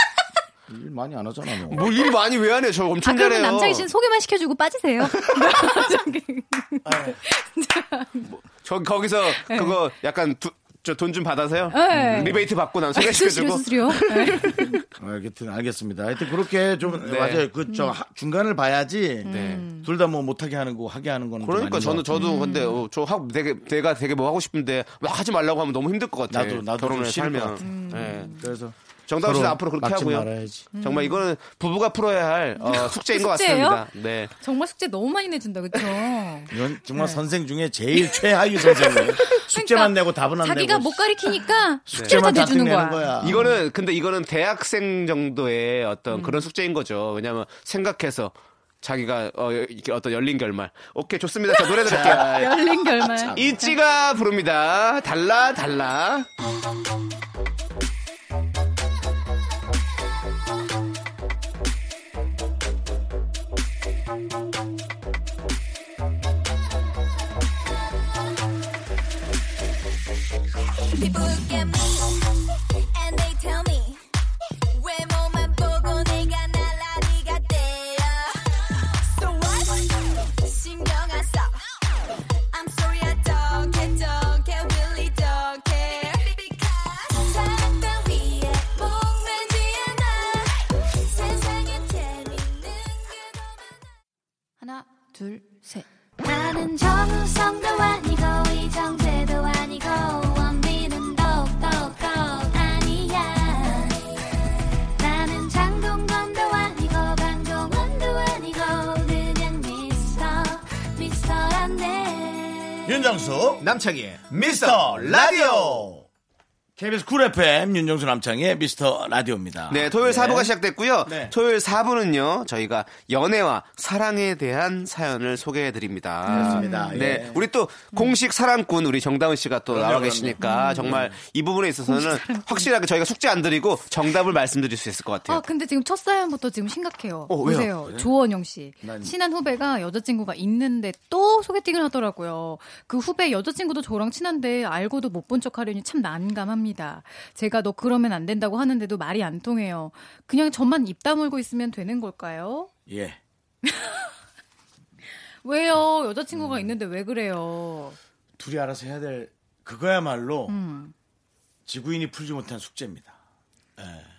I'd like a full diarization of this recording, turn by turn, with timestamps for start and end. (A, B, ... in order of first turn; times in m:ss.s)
0:00.7-0:01.9 A
0:01.7-0:03.9 B
0:03.0-0:08.3 C
0:06.8-0:07.2 A
0:08.3-0:14.6 B
0:09.4-0:09.8 C
0:11.7-0:14.8 C
0:11.9-0:12.4 A
0:15.0-0:22.2 A
0:17.0-0:17.5 B
0:17.7-0:18.0 C
0:19.2-0:19.9 C
0:19.2-0:19.7 B
0:21.4-0:28.4 B
0:22.1-0:22.8 C
0:26.3-0:30.7 A
0:27.6-0:28.5 C
0:29.1-0:34.3 B
0:30.7-0:31.3 C
0:32.6-0:33.9 C
0:34.4-0:37.2 C
0:36.5-0:41.3 A
0:38.0-0:43.6 C
0:41.9-0:43.6 A
0:41.9-0:42.2 B
0:43.2-0:52.5 B
0:46.1-0:46.5 C
0:51.5-0:53.7 C
0:51.8-0:53.6 A
0:53.3-0:56.3 B
1:10.9-1:12.3 D
1:12.9-1:14.0 D
1:14.7-1:21.7 D
1:22.5-1:33.8 D
1:34.6-1:35.8 C
1:36.2-1:43.9 D
1:45.0-1:52.2 D
1:52.8-1:53.6 A
1:53.6-1:55.9 B
1:54.3-1:56.1 A
1:56.8-2:00.5 A
1:59.7-2:15.4 B
2:01.0-2:01.3 A
2:06.2-2:07.2 C
2:06.3-2:07.4 A
2:09.7-2:11.2 A
2:10.4-2:11.0 C
2:11.8-2:12.7 C
2:15.3-2:32.7 C
2:17.3-2:17.7 B
2:17.4-2:18.1 A
2:18.8-2:19.1 A
2:32.9-2:33.2 A
2:33.6-2:34.1 C
2:35.4-2:38.0 C
2:38.4-2:40.6 A
2:40.5-2:40.9 C
2:41.7-2:43.2 A
2:43.8-2:44.1 A